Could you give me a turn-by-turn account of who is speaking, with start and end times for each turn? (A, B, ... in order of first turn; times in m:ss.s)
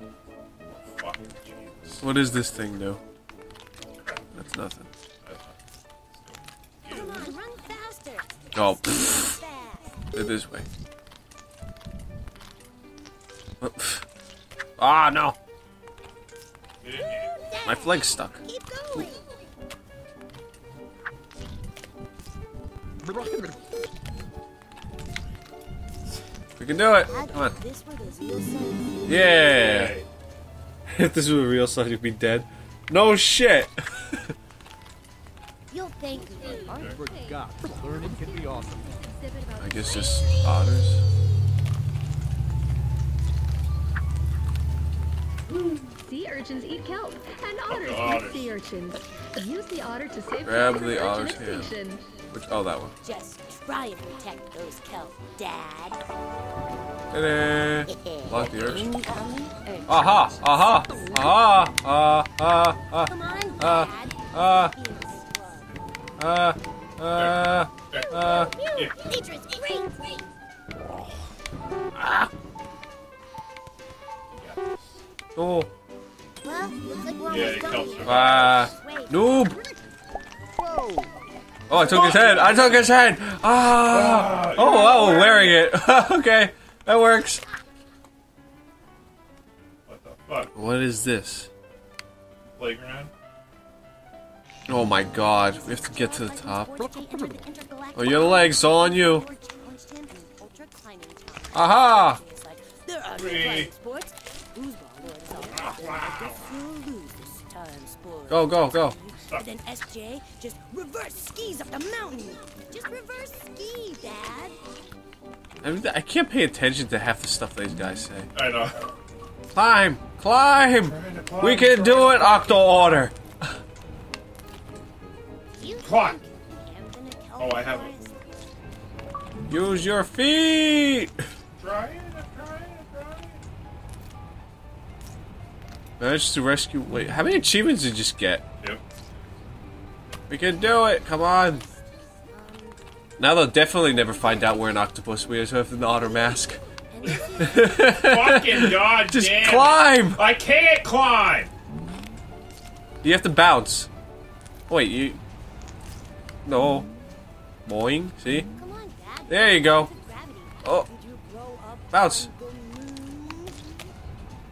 0:00.7-0:02.1 A
0:02.0-0:03.0 B
0:04.0-0:04.3 A
0:04.3-0:04.9 B
0:05.2-0:05.6 A
0:06.1-0:07.3 A
0:06.9-0:10.1 C
0:08.5-0:09.4 B
0:10.1-0:10.6 B
0:13.6-0:14.0 B
0:14.8-0:15.4 B
0:16.8-0:17.4 A
0:17.3-0:19.2 C
0:17.6-0:18.4 B
0:23.0-0:23.5 D
0:26.6-0:27.5 B
0:27.0-0:29.2 C
0:29.0-0:29.9 B
0:29.5-0:30.1 A
0:30.9-0:34.3 B
0:35.7-0:37.0 C
0:36.4-0:40.4 E
0:36.7-0:38.9 D
0:36.7-0:37.0 A
0:39.6-0:41.0 B
0:45.5-0:45.9 A
0:46.0-0:52.1 E
0:47.7-0:48.5 A
0:50.4-0:51.7 B
0:52.3-0:52.9 B
0:53.0-0:56.0 C
0:57.1-0:58.9 B
0:57.9-1:01.4 C
0:59.9-1:04.7 B
1:03.0-1:05.7 C
1:06.2-1:08.5 B
1:07.1-1:09.0 A
1:08.2-1:10.0 C
1:14.3-1:14.8 A
1:15.4-1:15.7 B
1:16.4-1:19.2 C
1:17.2-1:18.6 A
1:18.0-1:19.6 B
1:20.6-1:21.1 D
1:21.7-1:27.4 B
1:21.8-1:22.8 A
1:23.8-1:25.6 A
1:29.8-1:30.5 A
1:30.5-1:31.5 B
1:32.6-1:33.1 A
1:34.7-1:36.7 B
1:35.5-1:54.6 C
1:36.8-1:37.4 D
1:38.0-1:39.2 B
1:41.5-1:42.2 B
1:43.2-1:43.7 A
1:45.3-1:46.5 A
1:48.3-1:49.0 B
1:49.2-1:49.5 A
1:55.6-1:58.3 B
1:58.3-1:58.9 A
1:59.5-2:03.1 B
2:00.8-2:02.4 A
2:05.6-2:08.5 C
2:05.8-2:06.2 A
2:07.4-2:07.9 A
2:09.5-2:11.1 B
2:11.6-2:13.4 A
2:16.0-2:18.4 B
2:20.3-2:21.6 B
2:22.2-2:22.8 C
2:23.2-2:26.6 B
2:23.7-2:24.8 C
2:26.8-2:28.0 C
2:27.4-2:30.2 B
2:28.0-2:31.5 A
2:33.0-2:33.9 B
2:34.7-2:35.2 B
2:36.4-2:36.9 B
2:37.6-2:38.5 B
2:38.6-2:43.8 C
2:39.3-2:39.9 B
2:40.6-2:40.9 B
2:41.9-2:42.3 B